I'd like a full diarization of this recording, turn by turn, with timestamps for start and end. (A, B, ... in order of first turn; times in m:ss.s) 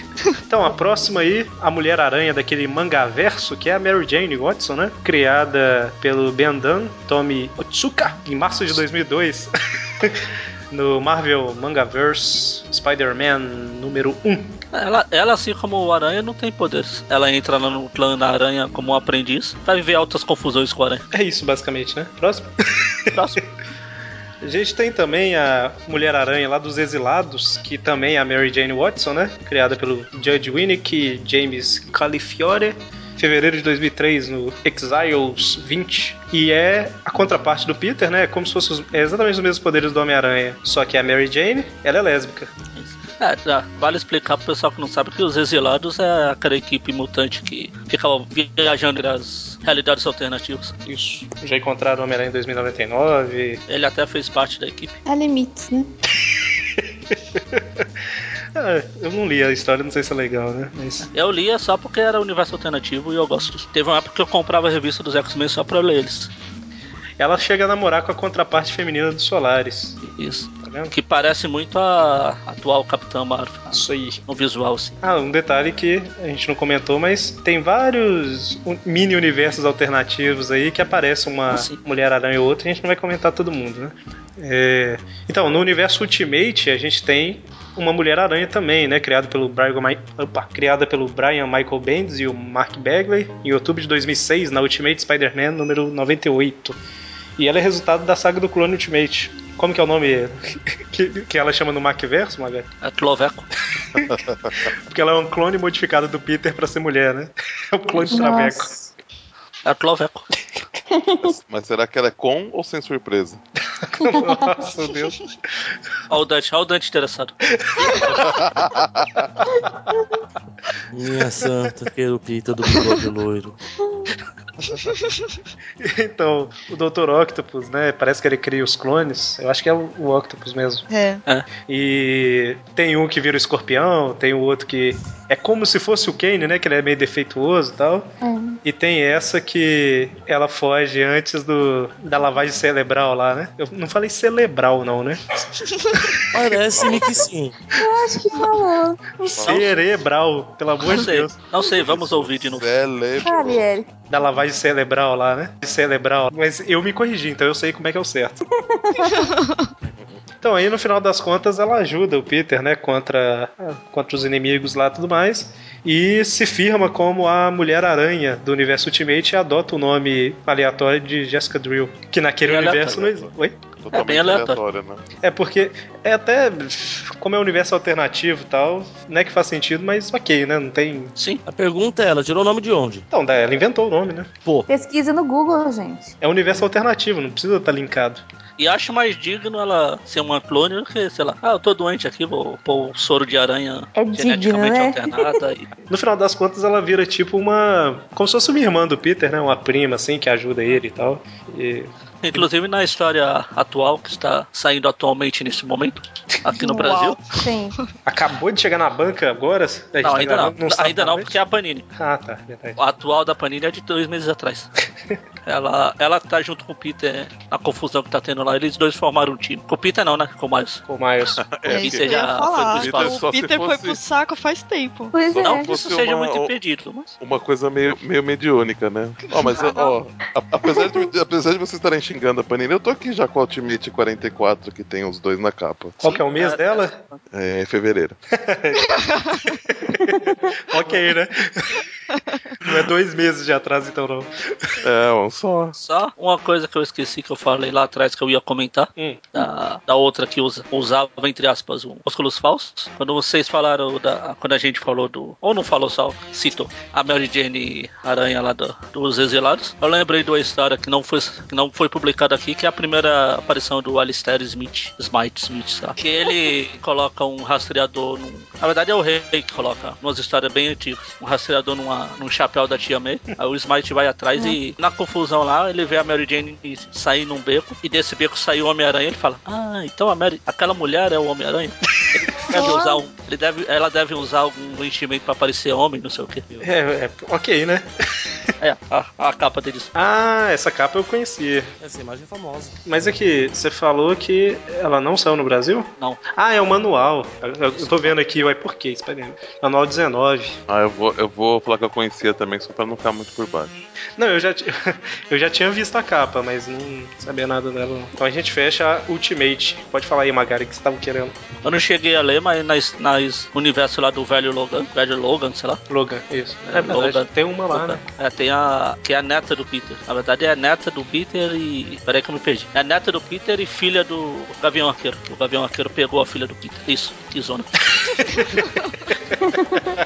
0:00.5-0:14.5 A
0:14.7-0:21.0 B
0:21.1-0:23.0 A
0:23.1-0:23.4 B
0:24.4-0:42.5 A
0:42.8-0:50.7 B
0:50.8-0:53.6 A
0:53.7-0:54.9 B
0:55.0-0:55.9 C
0:56.2-0:57.8 A
0:58.5-1:01.1 A
1:01.1-1:06.3 B
1:07.2-1:10.0 A
1:10.0-1:15.0 B
1:10.6-1:10.9 A
1:13.7-1:14.2 A
1:15.0-1:36.8 A
1:21.5-1:21.8 B
1:37.4-1:42.7 A
1:42.8-1:43.5 B
1:43.9-1:48.7 A
1:44.1-1:44.5 D
1:48.1-1:48.9 C
1:49.6-1:50.2 B
1:50.9-1:51.3 C
1:51.2-1:53.4 D
1:53.8-1:55.2 A
1:56.1-1:57.3 B
1:57.6-1:58.3 A
1:58.1-1:59.2 D
2:00.9-2:03.6 E
2:04.9-2:05.2 F
2:05.8-2:10.9 A
2:10.9-2:11.2 F
2:11.6-2:18.1 A
2:18.2-2:18.6 C
2:18.6-2:25.2 A
2:25.9-2:26.2 A
2:26.3-2:27.5 E
2:26.7-2:27.3 D
2:27.8-2:29.4 C
2:29.3-2:29.7 D
2:29.4-2:31.3 A
2:29.4-2:29.7 B
2:30.8-2:32.8 B
2:31.6-2:33.7 D
2:33.2-2:33.9 C
2:34.1-2:38.4 A
2:38.6-2:39.3 C
2:39.2-2:39.7 F
2:40.4-2:53.6 A
2:52.4-2:53.0 B
2:52.9-2:55.0 D
2:53.9-2:54.6 B
2:55.2-3:01.1 A
3:01.2-3:01.4 B
3:01.5-3:03.0 E
3:03.1-3:04.3 A
3:04.7-3:06.1 C
3:06.2-3:08.2 A
3:08.6-3:15.7 B
3:13.9-3:15.4 C
3:15.9-3:22.5 A
3:22.2-3:27.2 B
3:26.5-3:27.8 C
3:26.8-3:27.1 F
3:28.0-3:31.3 A
3:30.0-3:31.8 B
3:32.0-3:32.8 A
3:32.8-3:34.7 B
3:35.4-3:40.8 B
3:40.9-3:41.5 A
3:41.4-3:44.0 D
3:41.7-3:45.1 F
3:41.7-3:43.2 B
3:45.1-3:45.7 C
3:45.3-3:46.5 D
3:45.4-3:47.1 B
3:47.2-3:56.0 D
3:56.0-3:56.9 A
3:56.0-3:57.2 B
3:57.3-3:58.2 D
3:58.3-3:59.0 A
3:59.0-3:59.5 F
3:59.7-4:01.8 A
4:02.6-4:04.3 A
4:04.8-4:05.8 D
4:05.8-4:46.5 B
4:09.0-4:09.2 A
4:42.5-4:43.0 C
4:46.6-4:47.9 A
4:48.6-4:49.9 B
4:49.9-4:51.7 A
4:51.8-4:52.7 E
4:52.8-5:00.6 A
4:57.7-4:58.2 B
5:00.7-5:03.7 D
5:04.2-5:11.3 A
5:11.6-5:15.8 B
5:15.9-5:18.0 A
5:16.7-5:28.5 B
5:29.4-5:29.9 C